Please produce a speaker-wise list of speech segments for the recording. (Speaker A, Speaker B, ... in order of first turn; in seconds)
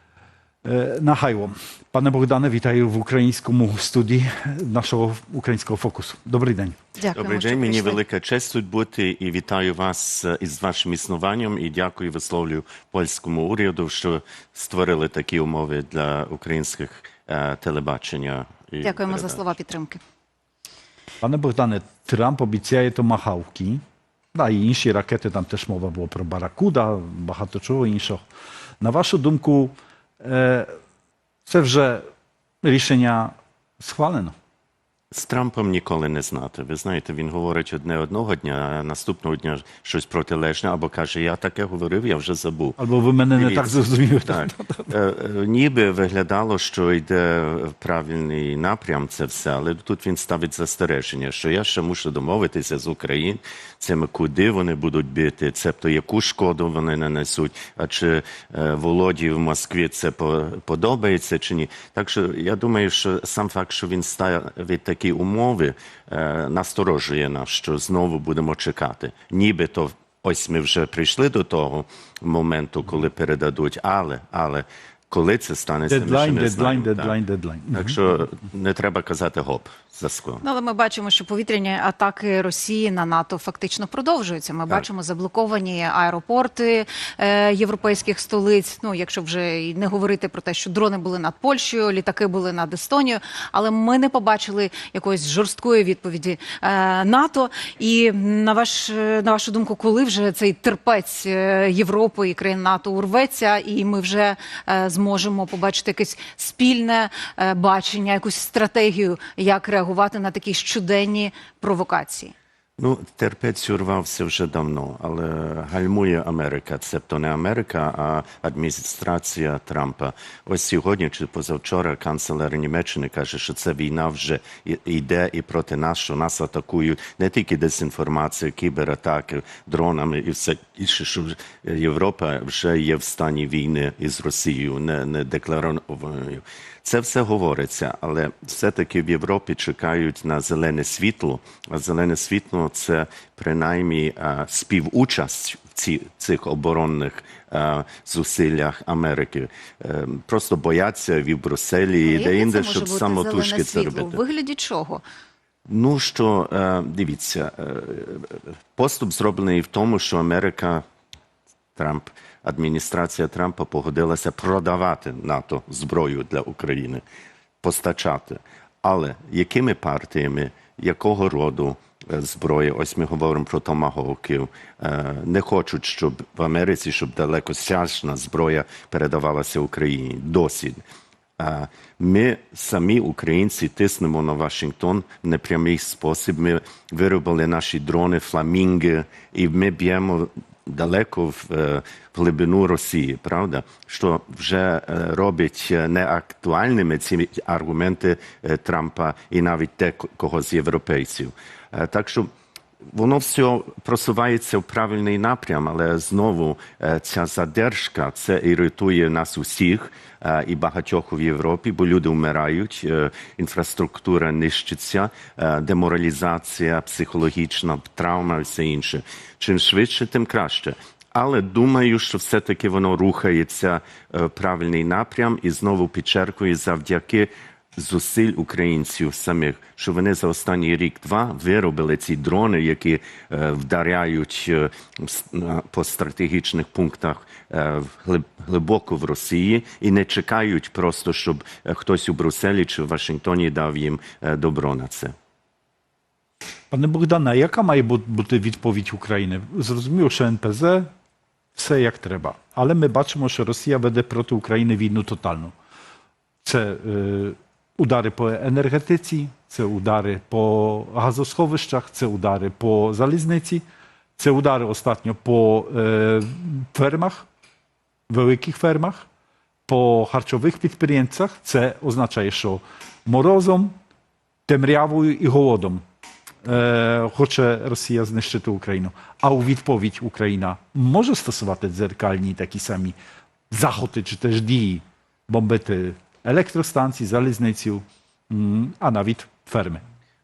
Speaker A: 0.6-6.8, 21.2-23.8, 24.3-28.2, 28.8-30.7, 31.4-32.0, 32.6-34.3, 42.8-44.9, 75.9-77.9, 246.7-250.9, 251.5-255.5, 256.4-263.6, 264.2-267.3, 268.1-269.1, 269.7-273.8, 274.5-275.8, 276.4-282.9, 283.5-289.8
Speaker B: 7.0-8.0, 18.8-20.0, 80.4-112.3, 152.1-155.0
Speaker C: 7.1-19.4, 35.1-42.8, 43.4-77.1, 77.7-80.4, 112.8-154.2, 155.7-160.8, 161.8-167.0, 167.6-180.8, 181.4-202.3, 202.9-245.1